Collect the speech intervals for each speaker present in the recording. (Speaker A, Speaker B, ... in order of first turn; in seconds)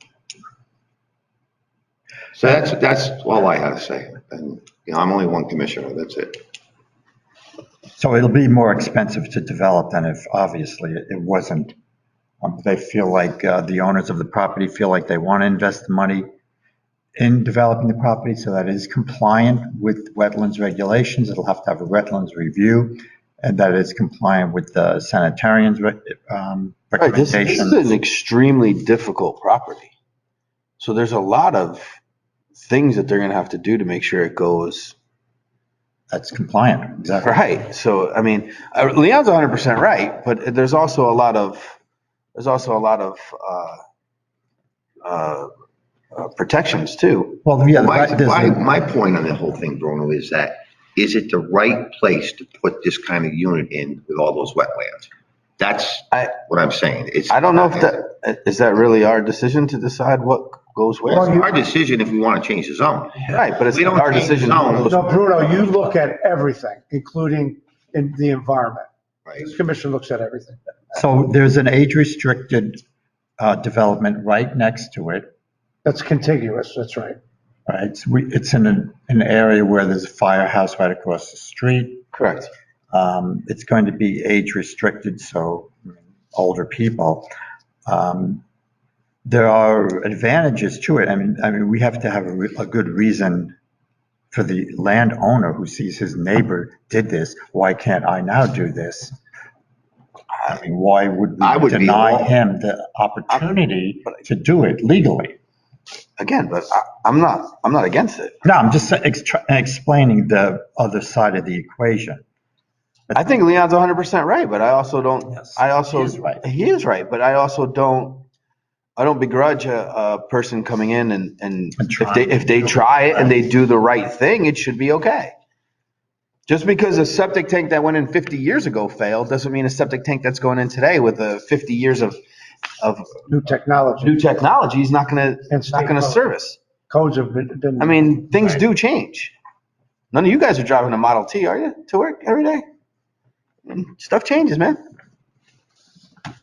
Speaker A: 2.4-6.4, 47.7-58.0, 61.1-65.8, 69.2-69.5, 101.4-102.3
Speaker B: 8.0-11.7, 12.4-16.3, 17.2-27.9, 36.1-37.4, 47.4-48.6, 70.9-72.8, 73.4-75.3, 77.7-82.0, 82.9-87.3, 87.9-88.4, 89.2-93.5, 94.3-99.2, 100.4-105.4, 108.4-112.2, 115.4-116.4, 121.8-123.4
Speaker C: 27.0-29.9, 30.8-32.0, 32.5-35.0, 37.2-41.8, 42.3-43.8, 45.0-45.5, 46.1-47.4, 57.3-61.3, 63.2-65.2, 82.1-82.5, 106.2-108.4, 113.1-118.2, 119.0-125.3, 126.5-132.2, 132.8-133.2, 134.0-136.6, 137.8-139.3, 140.1-142.6, 143.7-144.8
Speaker D: 61.1-61.5, 64.8-68.9, 69.4-70.6, 75.8-77.2, 133.3-134.2, 135.5-136.2, 136.9-138.1